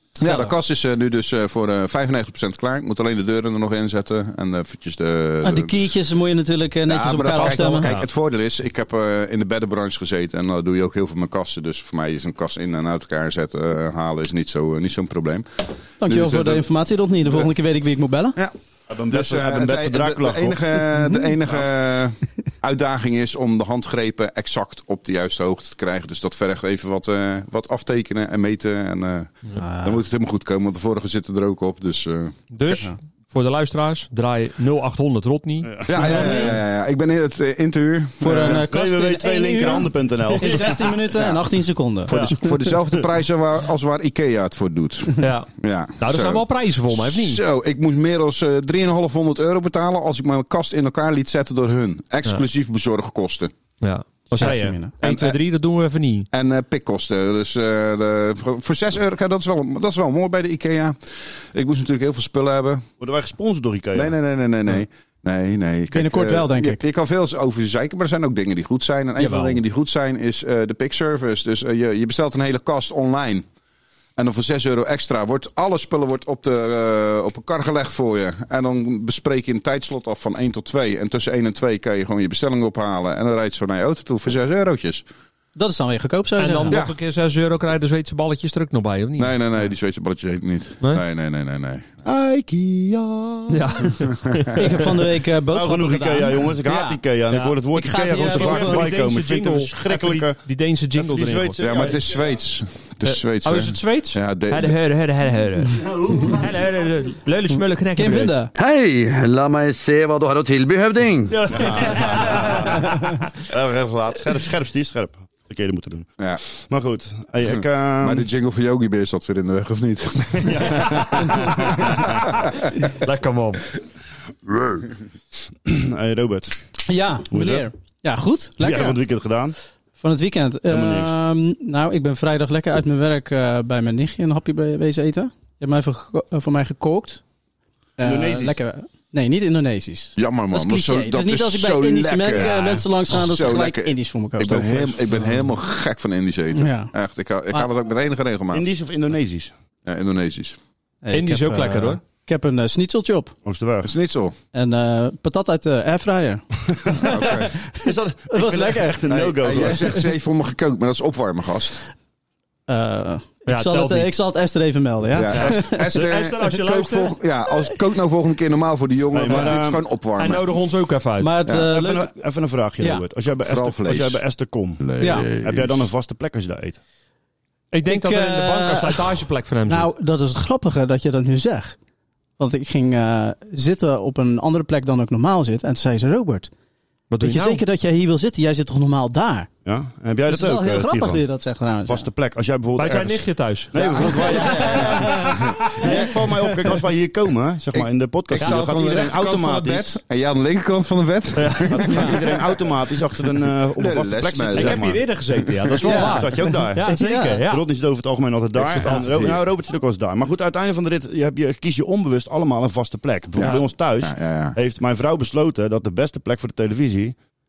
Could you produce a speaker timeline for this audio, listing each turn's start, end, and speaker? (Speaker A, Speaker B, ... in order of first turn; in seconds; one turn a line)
Speaker A: 0.2-5.8
Speaker B: 0.2-0.5
Speaker B: 5.4-7.9
Speaker A: 6.8-15.4
Speaker C: 7.3-8.1
Speaker A: 16.0-16.6
Speaker B: 16.0-18.4
Speaker D: 18.9-20.9
Speaker A: 19.1-32.8
Speaker B: 29.6-30.0
Speaker C: 32.5-35.7
Speaker D: 35.6-36.2
Speaker A: 35.9-38.6
Speaker B: 36.0-36.6
Speaker B: 38.2-42.1
Speaker D: 38.4-40.8
Speaker A: 42.1-53.5
Speaker C: 42.1-42.4
Speaker C: 45.2-47.4
Speaker C: 53.8-56.3
Speaker B: 54.3-54.9
Speaker A: 55.0-55.4
Speaker A: 56.3-61.0
Speaker A: 61.5-62.9
Speaker D: 63.0-64.2
Speaker A: 63.9-73.5
Speaker B: 65.9-66.8
Speaker C: 69.2-69.6
Speaker A: 74.2-85.0
Speaker B: 85.5-86.8
Speaker C: 86.4-89.4
Speaker A: 89.2-91.9
Speaker D: 92.0-93.8
Speaker C: 93.5-94.5
Speaker B: 94.5-97.0
Speaker D: 95.5-100.4
Speaker C: 97.3-97.6
Speaker B: 97.7-98.9
Speaker C: 98.2-101.6
Speaker D: 100.9-102.3
Speaker A: 101.6-104.8
Speaker C: 103.0-108.3
Speaker D: 105.8-106.5
Speaker B: 108.0-108.5
Speaker E: 108.5-111.5
Speaker C: 111.3-113.2
Speaker D: 111.5-112.9
Speaker D: 113.4-118.3
Speaker A: 118.0-122.5
Speaker D: 120.4-122.0
Speaker C: 123.0-123.7
Speaker D: 125.6-126.6
Speaker B: 126.9-129.0
Speaker D: 127.2-127.7
Speaker D: 128.6-129.5
Speaker B: 130.0-137.2
Speaker D: 130.7-131.2
Speaker B: 138.0-145.0
Speaker D: 138.0-138.6
Speaker A: 140.2-148.7
Speaker B: 146.5-146.9
Speaker D: 148.5-149.5
Speaker A: 149.8-150.6
Speaker B: 151.0-153.3
Speaker C: 151.1-152.0
Speaker D: 153.4-153.9
Speaker A: 153.8-154.3
Speaker B: 154.5-157.4
Speaker D: 156.7-160.0
Speaker A: 157.0-157.6
Speaker B: 158.3-159.1
Speaker A: 159.1-161.8
Speaker B: 162.7-165.8
Speaker C: 163.5-164.1
Speaker A: 165.1-170.4
Speaker C: 165.3-167.2
Speaker D: 169.1-169.8
Speaker C: 170.2-171.3
Speaker B: 171.2-172.1
Speaker D: 171.5-176.8
Speaker B: 172.8-173.0
Speaker A: 173.4-174.2
Speaker A: 174.8-175.8
Speaker B: 175.0-175.3
Speaker C: 177.7-179.9
Speaker B: 177.9-181.8
Speaker B: 182.4-186.5
Speaker C: 187.1-187.6
Speaker B: 187.2-189.5
Speaker D: 189.6-191.2
Speaker B: 190.3-192.1
Speaker D: 191.8-200.0
Speaker C: 192.8-194.8
Speaker B: 193.7-195.9
Speaker A: 197.7-202.4
Speaker C: 198.4-198.8
Speaker C: 201.3-202.2
Speaker D: 201.7-205.1
Speaker B: 201.9-202.2
Speaker A: 203.8-205.0
Speaker C: 204.5-207.6
Speaker B: 205.8-207.4
Speaker D: 205.9-206.9
Speaker D: 207.4-217.2
Speaker A: 208.6-209.4
Speaker C: 208.8-209.2
Speaker A: 213.4-214.6